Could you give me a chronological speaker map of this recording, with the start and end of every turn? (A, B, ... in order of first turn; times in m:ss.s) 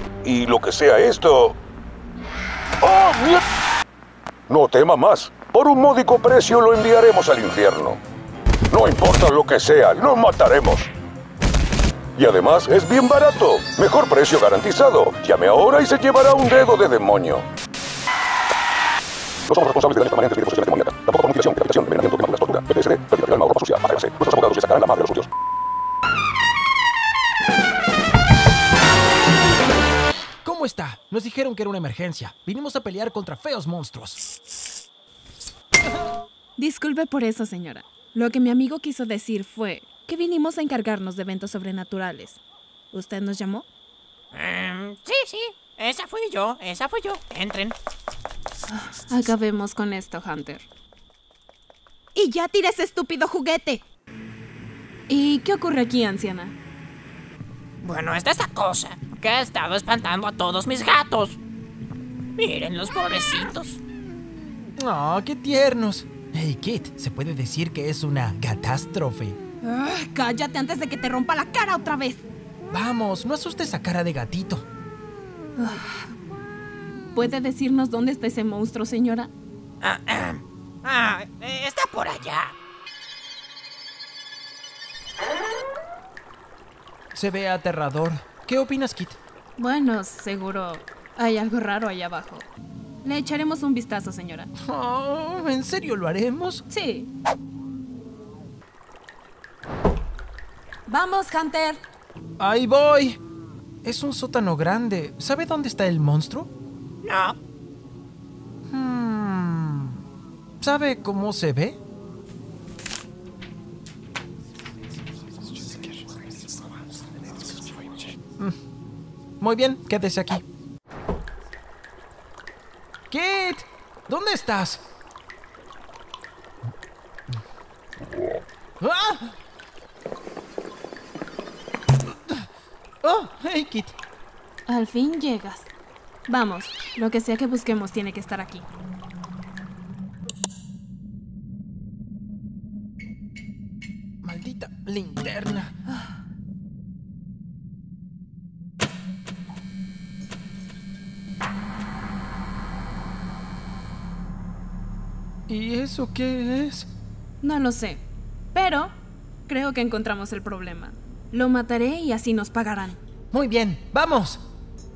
0:00.2-0:01.6 A
0:02.8-0:03.4 A
0:04.5-0:08.0 A
0:08.7-0:10.9 A
0:12.2-0:17.5 A
0:19.5-0:25.3 A
0:30.4-0:34.2 B
0:36.6-0:42.4 C
0:42.9-0:43.6 C
0:44.3-0:47.7 D
0:48.7-0:50.6 C
0:52.1-0:53.8 C
0:55.1-0:56.5 C
0:57.8-1:01.4 D
1:02.4-1:03.8 D
1:04.8-1:09.4 B
1:09.6-1:12.3 C
1:12.7-1:14.6 B
1:15.6-1:16.1 C
1:17.1-1:19.3 C
1:19.8-1:22.5 D
1:27.1-1:29.2 B
1:29.6-1:32.5 C
1:33.0-1:34.5 C
1:34.6-1:36.6 B
1:36.7-1:37.1 C
1:40.8-1:41.8 C
1:42.4-1:43.2 B
1:43.8-1:46.5 B
1:47.0-1:47.4 D
1:48.7-1:50.0 B
1:50.6-1:51.8 B
1:59.4-2:00.4 B
2:03.1-2:04.8 B
2:08.8-2:09.4 B
2:13.0-2:14.0 B
2:14.7-2:15.7 C
2:16.3-2:18.6 C
2:24.2-2:25.7 B
2:35.5-2:36.9 B
2:37.4-2:38.9 C
2:39.5-2:43.0 C
2:43.3-2:44.4 B